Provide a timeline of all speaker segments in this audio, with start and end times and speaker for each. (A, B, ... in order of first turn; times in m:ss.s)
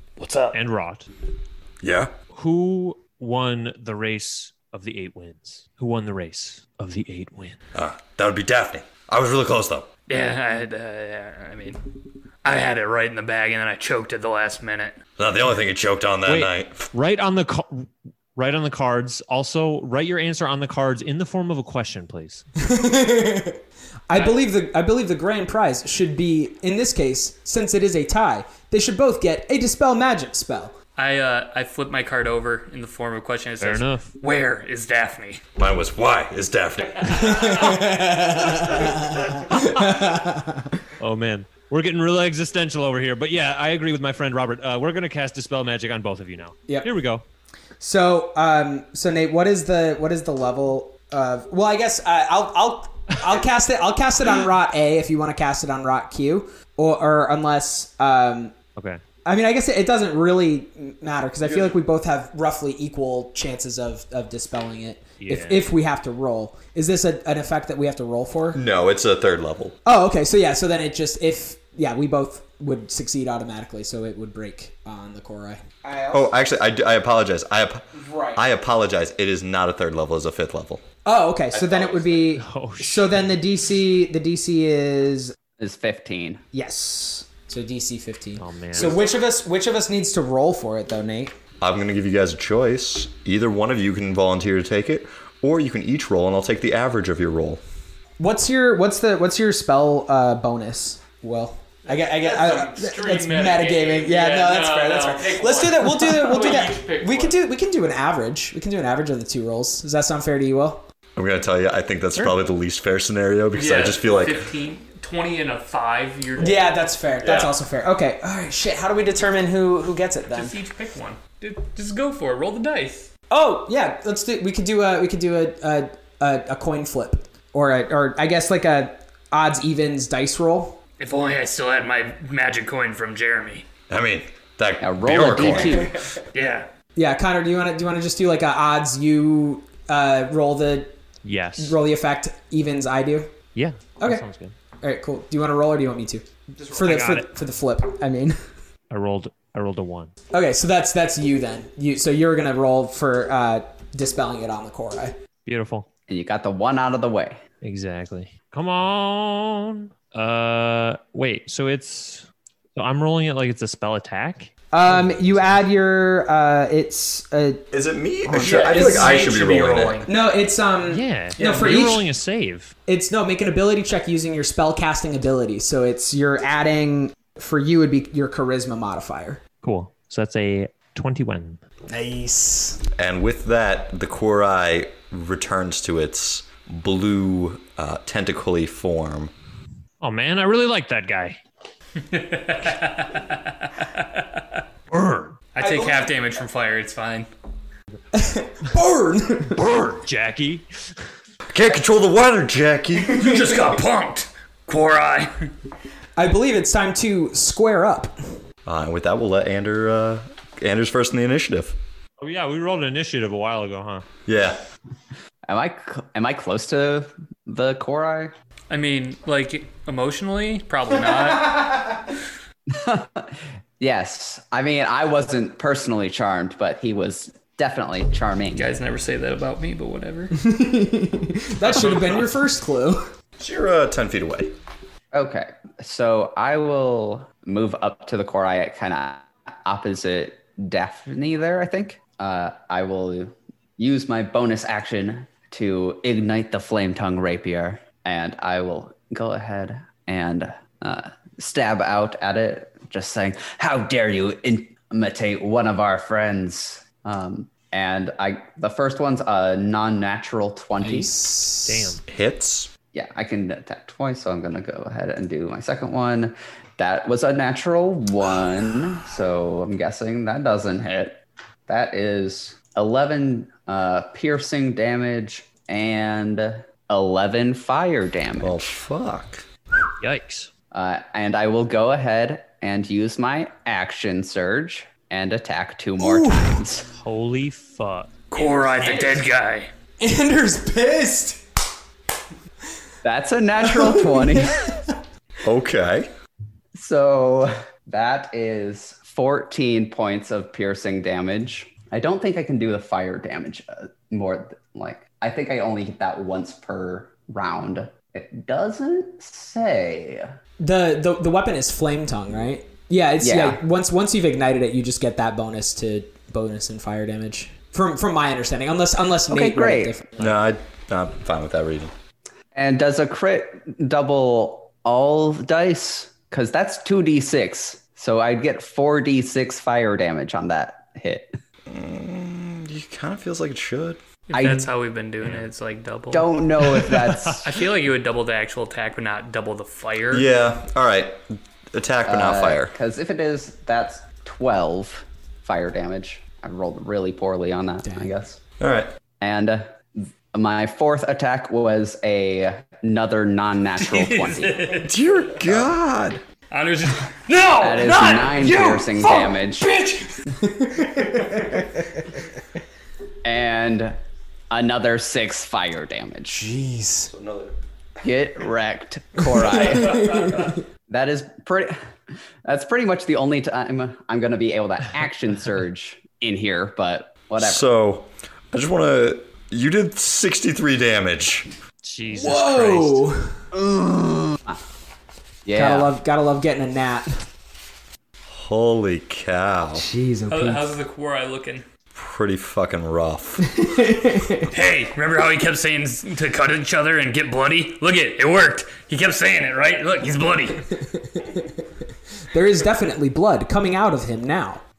0:00.2-0:00.5 A
0:00.5-0:01.1 B
0:01.8-0:02.1 C
0:02.3-0:07.6 B
0:07.7-0:09.9 C
0:10.1-0:15.0 A
0:15.2-0:16.9 C
0:16.2-0:22.4 B
0:22.6-0:30.7 D
0:24.1-0:24.4 A
0:31.0-0:35.4 A
0:33.6-0:34.1 B
0:35.6-0:37.6 C
0:37.1-0:40.8 D
0:37.2-0:37.8 A
0:39.3-0:39.8 B
0:41.0-0:47.2 B
0:47.8-0:58.5 D
0:58.8-0:59.0 B
0:59.2-1:08.6 D
1:05.2-1:05.6 B
1:08.5-1:09.8 C
1:09.8-1:16.3 D
1:16.1-1:20.8 C
1:18.0-1:18.4 D
1:21.0-1:25.4 D
1:21.5-1:22.2 C
1:22.4-1:23.2 B
1:25.6-1:26.4 E
1:26.5-1:31.3 D
1:28.4-1:28.9 B
1:31.6-1:37.6 C
1:38.2-1:50.8 D
1:41.9-1:47.4 A
1:51.2-1:54.5 C
1:53.5-1:56.7 A
1:56.4-2:00.5 D
1:57.2-1:57.5 C
2:00.3-2:03.1 A
2:03.3-2:10.8 D
2:11.0-2:13.7 A
2:13.9-2:15.9 C
2:14.8-2:15.9 E
2:15.4-2:16.1 D
2:16.3-2:16.7 A
2:17.0-2:21.0 D
2:21.2-2:21.8 B
2:21.6-2:23.3 D
2:23.5-2:24.5 B
2:24.8-2:28.4 D
2:26.7-2:27.3 B
2:28.9-2:30.1 B
2:30.3-2:35.2 D
2:35.4-2:35.9 B
2:36.1-2:37.4 E
2:37.6-2:45.6 B
2:44.7-2:47.6 D
2:47.7-2:50.0 C
2:48.2-2:49.3 D
2:48.4-2:50.1 A
2:50.0-2:52.0 D
2:50.9-2:52.7 B
2:51.4-2:51.7 A
2:52.9-2:59.4 D
2:59.6-3:01.6 B
3:01.9-3:02.8 D
3:03.0-3:09.3 C
3:10.0-3:11.4 B
3:12.0-3:14.6 A
3:14.9-3:15.4 B
3:15.5-3:17.3 A
3:15.6-3:16.1 D
3:18.1-3:19.6 D
3:19.5-3:20.6 B
3:21.5-3:23.4 C
3:23.1-3:25.5 A
3:26.2-3:28.1 D
3:28.6-3:31.8 C
3:32.2-3:34.0 B
3:34.2-3:34.6 C
3:35.4-3:38.3 E
3:38.7-3:41.8 A
3:42.7-3:48.7 E
3:48.5-3:50.3 A
3:50.4-3:53.0 D
3:51.6-3:52.3 A
3:53.4-3:54.5 C
3:55.1-4:21.1 E
4:20.8-4:22.0 D
4:21.6-4:22.0 B
4:22.1-4:22.7 C
4:22.9-4:38.7 E
4:38.4-4:39.4 C
4:40.0-4:40.5 B
4:40.7-4:46.8 E
4:46.0-4:46.6 D
4:47.0-4:48.1 B
4:48.3-4:49.7 A
4:48.4-4:49.2 D
4:50.0-4:51.4 D
4:53.0-4:54.6 E
4:53.6-4:55.0 D
4:55.4-4:56.1 C
4:56.7-5:10.3 E
5:10.6-5:20.3 D
5:13.2-5:13.6 E
5:19.3-5:19.9 E
5:20.2-5:21.9 C
5:22.5-5:31.4 E
5:31.7-5:34.0 C
5:34.3-5:36.8 A
5:34.3-5:34.7 E
5:35.2-5:35.5 B
5:36.1-5:37.5 E
5:36.7-5:37.4 B
5:37.4-5:40.3 A
5:40.1-5:42.7 C
5:42.0-5:48.4 E
5:47.8-5:48.2 D
5:48.6-5:48.9 C
5:49.2-5:54.6 E
5:53.8-5:55.0 A
5:54.8-5:56.2 C
5:56.5-6:00.2 A
5:57.6-5:59.7 E
6:00.4-6:02.2 D
6:03.2-6:04.0 E
6:04.5-6:06.5 E
6:06.3-6:07.1 D
6:07.1-6:07.5 C
6:08.0-6:10.3 E
6:09.2-6:10.6 D
6:10.9-6:11.8 E
6:12.4-6:17.6 E
6:17.4-6:21.5 C
6:21.8-6:23.1 B
6:22.1-6:23.4 D
6:23.5-6:24.6 E
6:25.4-6:25.9 E
6:25.5-6:27.2 D
6:28.3-6:29.8 C
6:29.8-6:30.8 D
6:30.3-6:31.6 A
6:31.9-6:33.6 C
6:33.5-6:34.5 D
6:34.5-6:40.7 A
6:40.9-6:41.6 D
6:42.3-6:44.6 D